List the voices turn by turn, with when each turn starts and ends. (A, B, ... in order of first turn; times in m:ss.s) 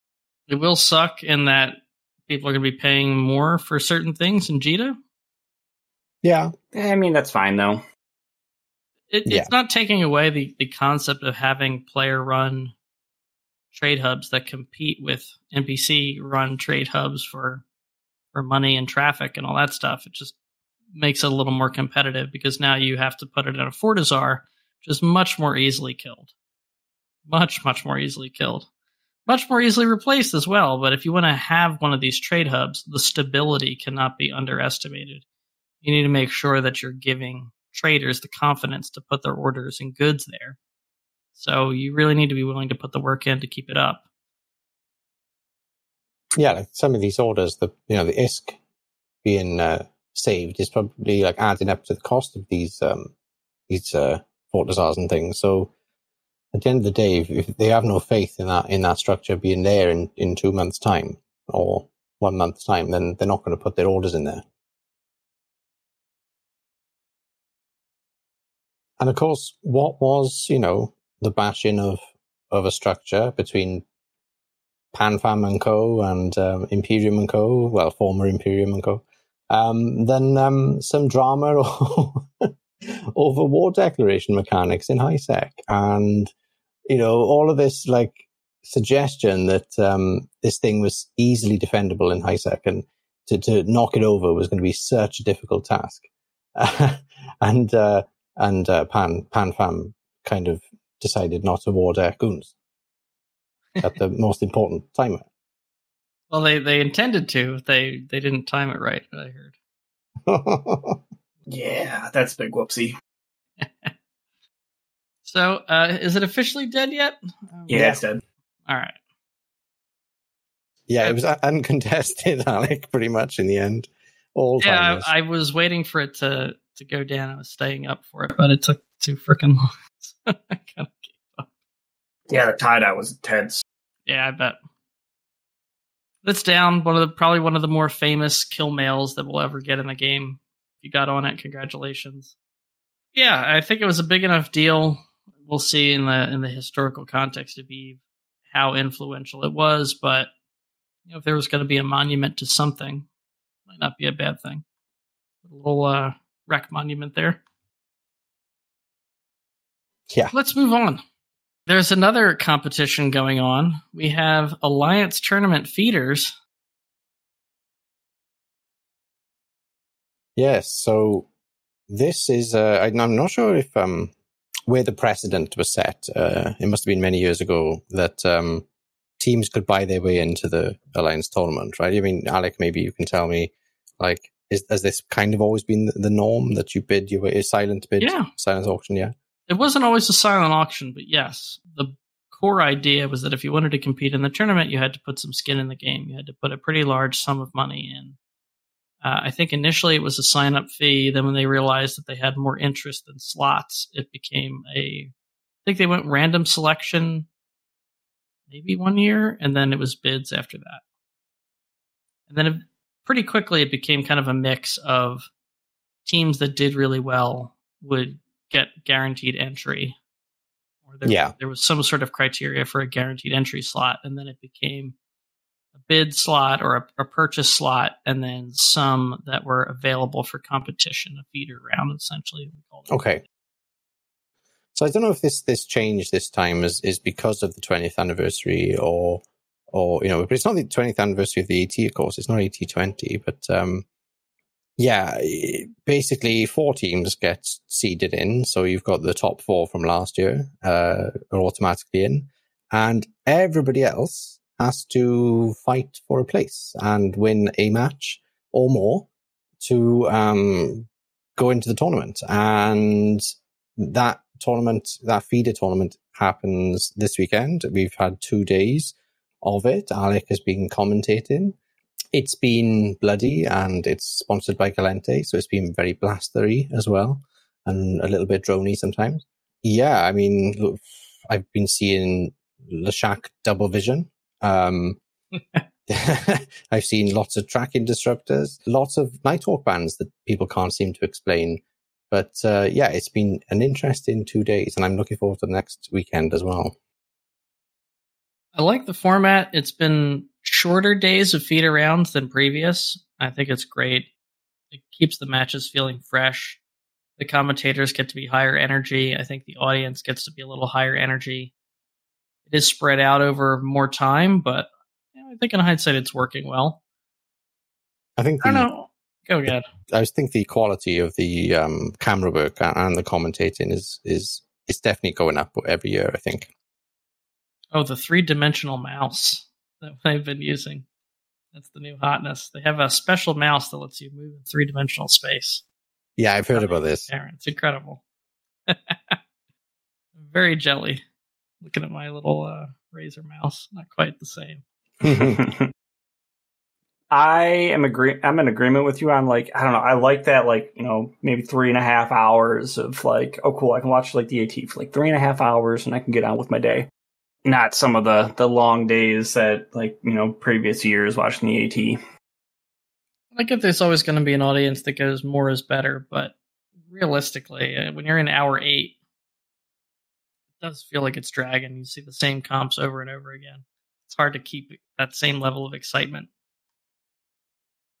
0:00.5-0:05.0 A
0:06.2-0:06.5 B
0:06.7-0:07.8 C
0:09.1-0:12.7 A
0:13.7-0:17.6 A
0:18.3-0:20.3 A
0:20.9-0:26.3 A
0:27.3-0:28.7 A
0:29.2-0:35.2 A
0:35.8-0:40.6 A
0:41.4-0:44.0 A
0:46.3-0:48.6 B
0:49.2-0:53.1 B
0:53.7-0:55.7 B
0:56.5-1:04.4 B
1:09.0-1:13.8 B
1:14.9-1:26.3 B
1:26.9-1:36.0 B
1:36.6-1:42.5 B
1:43.8-1:45.2 B
1:46.3-1:49.5 A
1:50.2-1:51.0 B
1:51.5-1:53.0 C
1:53.6-1:53.9 A
1:55.2-1:58.0 A
1:57.7-1:58.2 C
1:58.7-1:59.0 A
2:00.9-2:05.1 B
2:04.6-2:11.5 A
2:12.3-2:13.6 C
2:14.1-2:14.6 A
2:16.2-2:22.3 A
2:23.1-2:30.3 A
2:31.0-2:33.0 A
2:33.7-2:34.6 A
2:35.4-2:37.4 A
2:40.3-2:41.0 A
2:41.7-2:46.3 A
2:50.4-2:51.3 B
2:51.9-2:54.1 B
2:54.7-2:58.6 B
2:59.2-3:09.1 B
3:08.0-3:08.3 A
3:09.5-3:18.2 A
3:19.0-3:25.1 A
3:25.6-3:27.3 A
3:28.5-3:30.8 A
3:32.3-3:35.3 A
3:36.0-3:40.0 A
3:40.9-3:44.9 A
3:41.0-3:41.3 B
3:45.8-3:53.1 A
3:52.9-3:53.2 B
3:54.7-4:03.8 B
4:04.8-4:19.1 B
4:19.6-4:23.2 B
4:23.8-4:31.6 B
4:32.1-4:45.0 B
4:45.9-4:56.7 B
4:58.5-5:04.1 A
5:04.7-5:06.6 A
5:07.2-5:11.5 A
5:12.5-5:16.8 A
5:18.2-5:18.7 B
5:18.4-5:19.7 A
5:19.9-5:26.5 B
5:27.7-5:30.8 A
5:31.5-5:35.6 A
5:36.2-5:37.1 B
5:36.5-5:38.0 A
5:38.7-5:39.2 A
5:40.2-5:41.0 A
5:41.6-5:44.6 A
5:45.0-5:45.4 B
5:45.1-5:45.7 C
5:47.1-5:56.9 C
5:57.4-6:02.0 C
6:03.3-6:06.3 A
6:06.9-6:08.9 A
6:10.6-6:16.3 A